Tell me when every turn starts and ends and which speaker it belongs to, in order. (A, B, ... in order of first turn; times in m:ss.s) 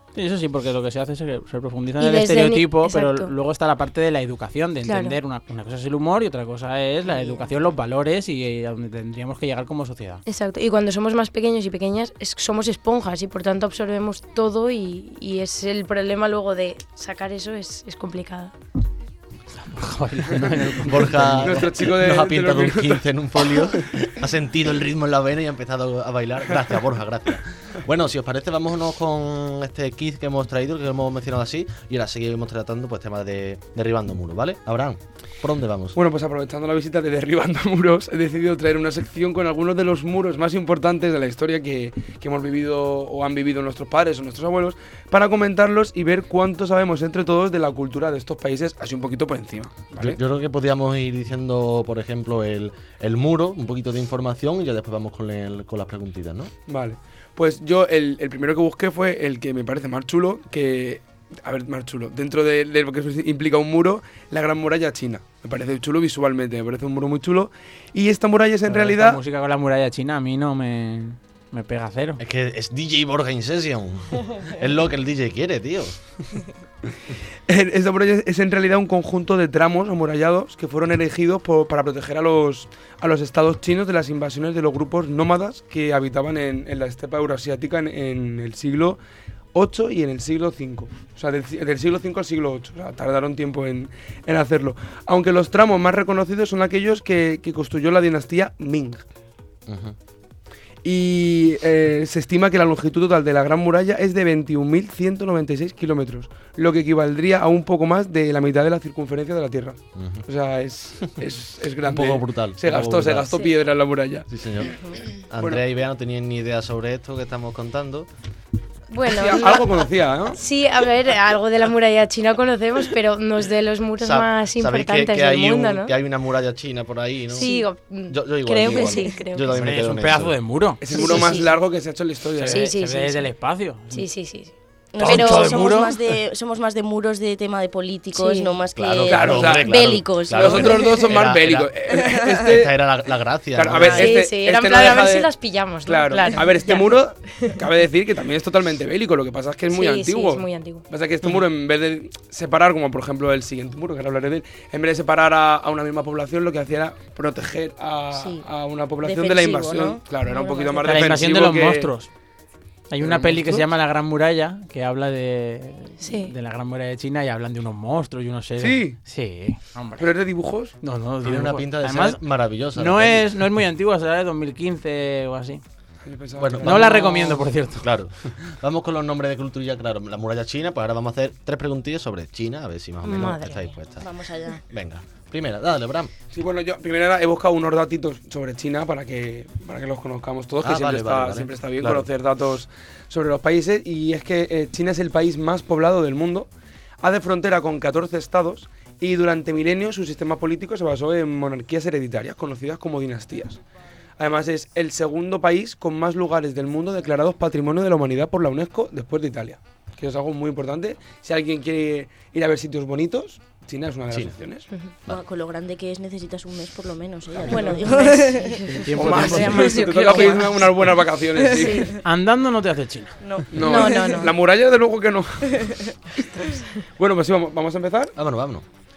0:00.1-0:10.2 A
0:02.0-0:03.3 B
0:04.8-0:05.2 B
0:07.1-0:07.4 B
0:10.2-0:18.5 B
0:19.6-0:21.5 A
0:20.8-0:36.0 C
0:21.2-0:23.0 D
0:35.9-0:50.2 D
0:50.0-0:56.5 C
0:56.7-1:09.2 D
1:08.7-1:12.2 A
1:12.2-1:16.0 C
1:17.5-1:29.0 D
1:29.5-1:39.0 D
1:39.7-1:40.0 C
1:40.8-1:54.3 D
1:50.0-1:50.2 C
1:51.8-1:53.4 C
1:54.3-1:58.1 C
1:58.9-2:05.9 B
1:59.0-2:00.4 D
2:04.0-2:07.5 C
2:07.3-2:09.5 B
2:08.1-2:10.3 C
2:09.5-2:10.8 A
2:10.8-2:12.7 D
2:10.9-2:11.5 B
2:12.4-2:14.1 A
2:12.5-2:13.3 B
2:13.9-2:15.8 B
2:14.9-2:21.1 E
2:15.0-2:16.0 A
2:18.1-2:18.5 B
2:18.7-2:21.7 C
2:19.0-2:22.8 D
2:21.9-2:22.4 E
2:22.4-2:24.1 C
2:23.5-2:25.3 D
2:23.8-2:24.1 E
2:23.9-2:27.6 B
2:25.8-2:41.9 D
2:29.7-2:30.8 B
2:38.1-2:38.4 E
2:39.0-2:40.0 E
2:40.2-2:41.1 B
2:40.8-2:42.1 A
2:42.9-2:50.1 A
2:43.0-2:43.7 D
2:46.0-2:46.3 B
2:48.6-2:49.0 D
2:50.0-2:50.7 D
2:50.8-2:52.2 A
2:51.2-2:53.5 C
2:52.7-2:55.6 A
2:56.0-2:56.8 D
2:56.4-3:04.1 C
2:56.6-2:57.9 A
3:03.0-3:03.7 B
3:04.0-3:04.6 E
3:04.7-3:06.1 C
3:06.3-3:16.5 D
3:10.6-3:12.1 C
3:17.0-3:23.6 D
3:24.2-3:34.7 D
3:35.1-3:40.6 E
3:37.4-3:37.7 D
3:37.4-3:40.5 B
3:38.7-3:39.7 A
3:38.9-3:41.9 D
3:41.3-3:42.0 E
3:41.6-3:42.0 B
3:42.0-3:43.1 A
3:43.2-3:44.3 E
3:43.5-3:45.9 D
3:43.6-3:44.4 B
3:45.5-3:45.9 E
3:47.0-3:48.1 D
3:48.2-3:48.6 C